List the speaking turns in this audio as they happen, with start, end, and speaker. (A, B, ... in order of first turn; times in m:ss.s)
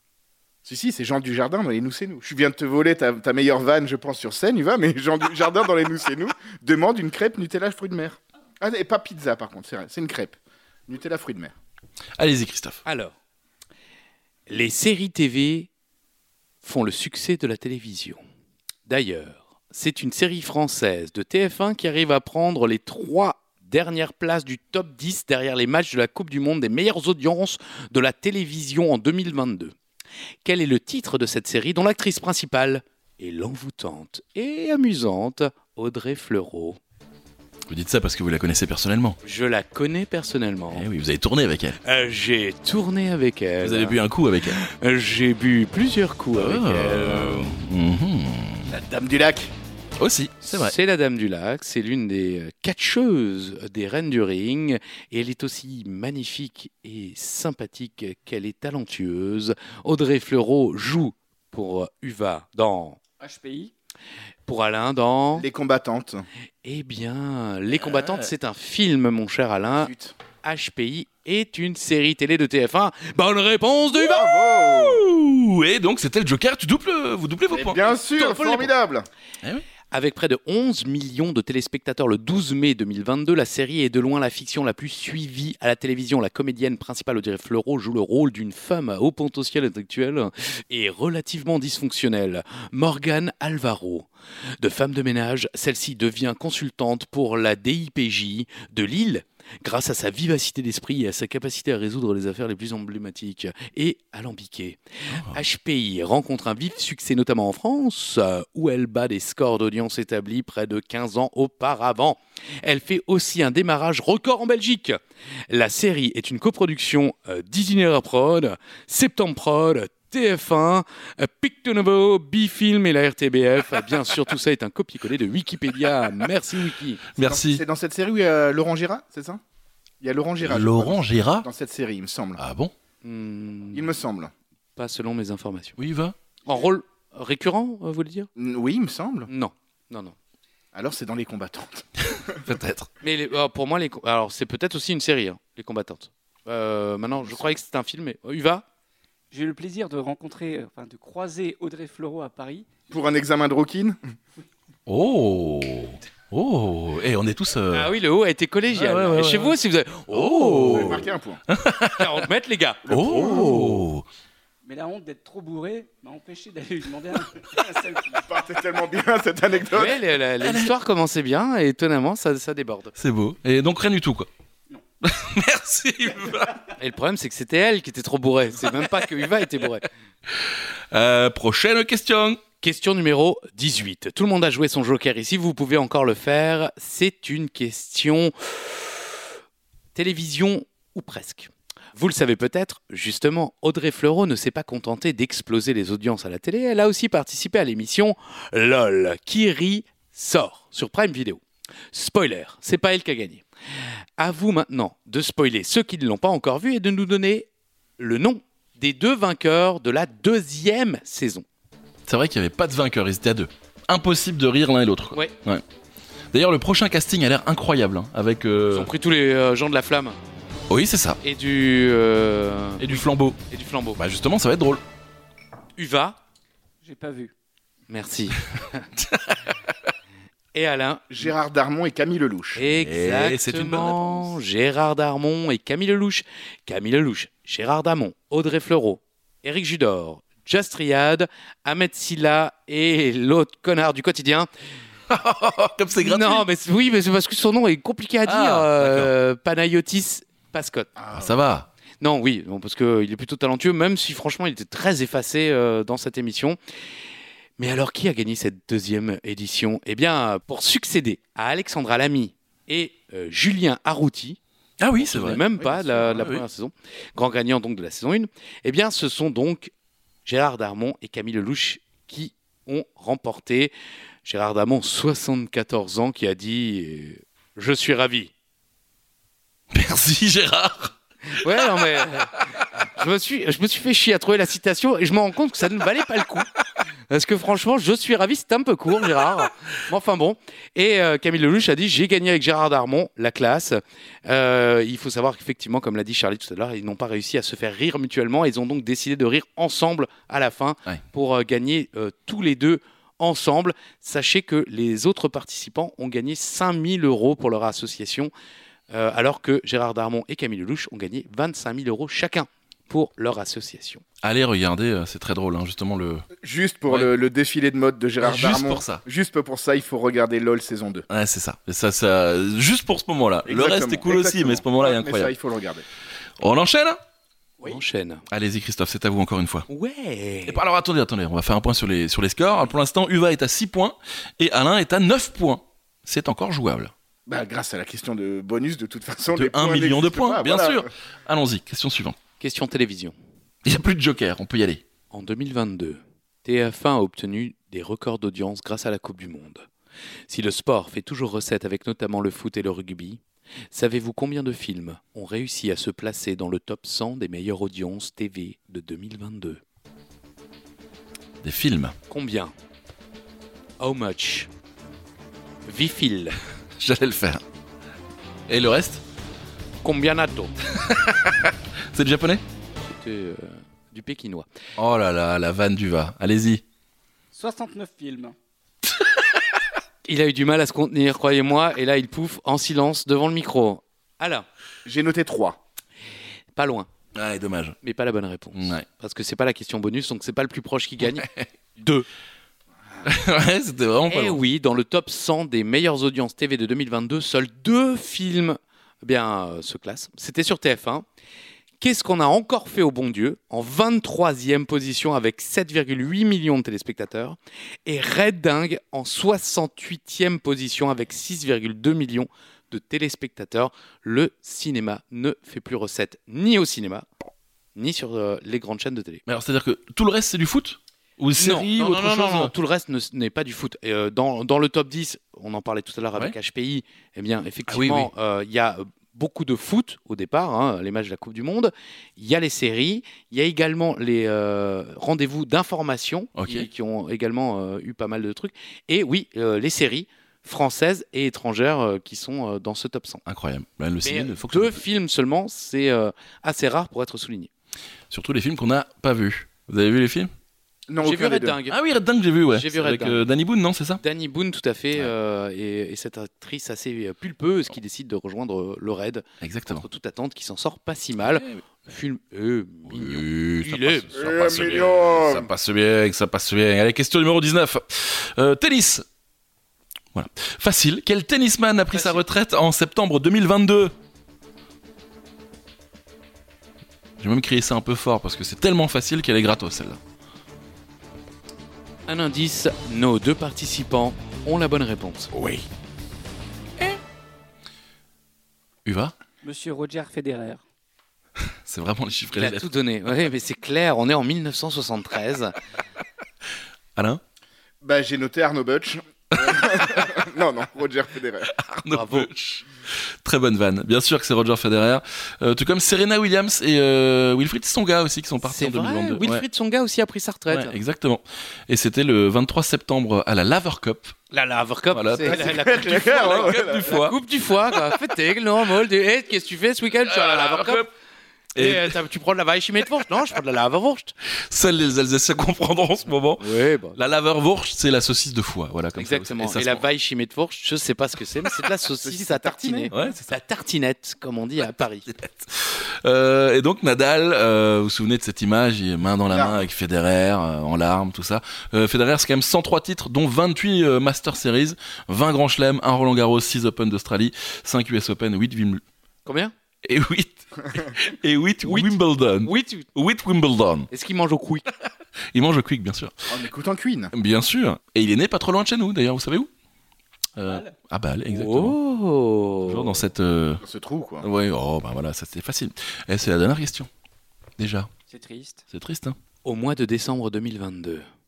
0:00.6-0:11.5 A
0:12.2-0:12.8 B
0:12.8-0:13.1 C
0:14.5-0:15.7 C
0:16.6-0:18.2 C
0:18.9-0:29.8 C
0:30.4-0:36.8 C
0:37.7-0:39.2 B
0:39.2-0:40.9 C
0:40.7-0:41.8 B
0:41.8-0:47.6 C
0:43.6-0:44.6 B
0:46.3-0:48.7 B
0:48.7-0:49.5 A
0:50.0-0:50.8 B
0:50.4-1:03.0 C
1:03.2-1:03.7 D
1:04.5-1:05.5 C
1:05.4-1:06.2 A
1:06.6-1:09.9 C
1:07.8-1:08.3 B
1:09.8-1:10.2 A
1:10.4-1:14.3 C
1:13.9-1:15.0 A
1:14.2-1:17.8 B
1:17.5-1:19.1 A
1:17.9-1:18.7 C
1:19.9-1:34.1 C
1:34.6-2:07.0 C
1:45.1-1:45.4 B
2:07.2-2:07.6 B
2:07.2-2:09.4 A
2:10.0-2:12.4 A
2:10.4-2:11.5 B
2:12.4-2:12.7 B
2:13.0-2:13.9 C
2:13.7-2:14.3 A
2:14.8-2:15.8 C
2:15.8-2:16.2 B
2:16.4-2:18.3 C
2:18.4-2:19.3 A
2:19.3-2:20.2 C
2:20.7-2:22.4 A
2:22.2-2:22.9 B
2:23.0-2:28.6 C
2:27.2-2:27.5 A
2:29.3-2:32.7 D
2:32.9-2:34.0 A
2:34.9-2:37.9 B
2:37.7-2:41.0 C
2:38.7-2:39.6 B
2:40.1-2:42.1 B
2:40.6-2:41.4 A
2:41.9-2:43.9 C
2:42.8-2:43.7 A
2:42.9-2:44.0 B
2:44.6-2:48.4 D
2:48.3-2:50.0 A
2:49.7-2:52.9 C
2:50.4-2:50.7 B
2:53.0-2:54.3 B
2:55.0-2:56.6 B
2:56.8-2:59.9 C
3:00.3-3:02.4 B
3:02.6-3:09.1 C
3:10.0-3:23.4 C
3:24.2-3:31.4 C
3:32.1-3:35.6 B
3:36.3-3:38.9 B
3:38.7-3:40.2 C
3:40.7-3:41.2 B
3:41.2-3:44.0 C
3:42.8-3:43.4 B
3:44.0-3:44.8 B
3:45.8-3:46.2 C
3:46.8-3:47.3 D
3:47.9-3:48.9 C
3:49.0-3:49.6 B
3:50.5-3:51.3 C
3:51.1-3:52.7 A
3:52.6-4:04.5 C
3:52.7-3:54.3 B
4:05.1-4:06.5 B
4:06.0-4:10.9 C
4:08.2-4:09.1 B
4:11.0-4:11.3 A
4:11.1-4:11.7 B
4:12.0-4:16.6 C
4:17.6-4:24.4 C
4:24.8-4:25.4 B
4:25.0-4:29.7 C
4:25.6-4:26.3 A
4:26.0-4:26.4 B
4:30.3-4:33.7 C
4:34.2-4:38.3 C
4:39.7-4:40.9 B
4:41.3-4:46.5 C
4:41.4-4:42.5 B
4:47.1-5:08.3 C
5:08.9-5:14.0 C
5:14.2-5:16.3 B
5:16.4-5:21.1 A
5:16.9-5:17.1 B
5:18.2-5:19.0 B
5:21.1-5:25.3 B
5:23.5-5:25.8 A
5:26.4-5:27.0 B
5:27.6-5:28.2 C
5:28.3-5:29.7 B
5:29.7-5:30.6 C
5:30.5-5:36.9 B
5:37.3-5:40.9 A
5:39.4-5:42.2 B
5:42.4-5:43.2 C
5:43.6-5:44.8 B
5:45.1-5:49.7 C
5:50.3-5:53.2 C
5:53.7-5:59.6 C
6:01.4-6:02.0 B
6:02.1-6:02.5 C
6:03.8-6:04.5 C
6:05.7-6:06.4 C
6:06.8-6:07.4 B
6:08.5-6:09.0 B
6:09.8-6:10.5 C
6:10.7-6:12.4 B
6:12.8-6:14.5 C
6:14.8-6:16.6 B
6:17.3-6:18.4 D
6:20.1-6:24.5 C
6:24.8-6:25.6 A
6:26.6-6:26.9 C
6:27.2-6:27.8 B
6:27.8-6:32.0 C
6:28.6-6:28.8 B
6:31.1-6:31.5 B
6:33.0-6:34.4 B
6:34.1-6:41.0 C
6:41.8-6:57.1 C
6:57.8-6:59.2 C
6:59.3-7:02.5 B
7:01.4-7:23.2 C
7:07.7-7:08.1 B
7:16.4-7:16.7 B
7:23.3-7:24.8 B
7:24.0-7:27.5 C
7:28.1-7:30.3 B
7:30.9-7:31.6 A
7:31.0-7:31.8 C
7:31.7-7:34.0 B
7:32.5-7:33.3 C
7:34.0-7:44.1 C
7:39.4-7:39.8 B
7:41.2-7:41.6 B
7:42.9-7:49.0 B
7:44.1-7:45.5 A
7:50.1-7:53.9 B
7:51.9-7:52.2 C
7:57.2-8:00.0 B
8:02.1-8:05.3 C
8:05.4-8:05.6 B
8:08.8-8:09.2 B
8:09.4-8:10.6 D
8:11.4-8:12.7 B
8:12.3-8:15.6 C
8:17.0-8:17.2 B
8:17.8-8:21.5 A
8:19.4-8:20.1 B
8:21.4-8:29.4 B
8:21.9-8:22.3 C
8:28.4-8:30.8 C
8:30.5-8:34.2 B
8:34.3-8:40.9 C
8:34.9-8:37.2 B
8:35.2-8:37.0 A
8:37.7-8:38.0 B
8:40.0-8:40.9 B
8:41.6-8:42.0 B
8:41.6-8:44.2 C
8:44.5-8:49.8 B
8:46.4-8:47.0 C
8:49.0-8:55.1 C
8:52.0-8:52.9 A
8:52.9-8:53.4 B
8:55.1-9:08.8 B
8:59.3-8:59.7 A
9:09.2-9:09.5 C
9:09.8-9:13.9 B
9:11.6-9:12.9 C
9:13.9-9:14.6 C
9:15.3-9:16.2 B
9:16.3-9:17.1 A
9:17.1-9:19.5 B
9:20.4-9:21.8 B
9:20.4-9:20.7 D
9:21.3-9:23.0 C
9:22.6-9:23.6 B
9:23.6-9:24.2 A
9:24.2-9:26.9 B
9:27.6-9:27.9 B
9:28.1-9:28.6 D
9:28.7-9:29.2 B
9:29.4-9:31.0 C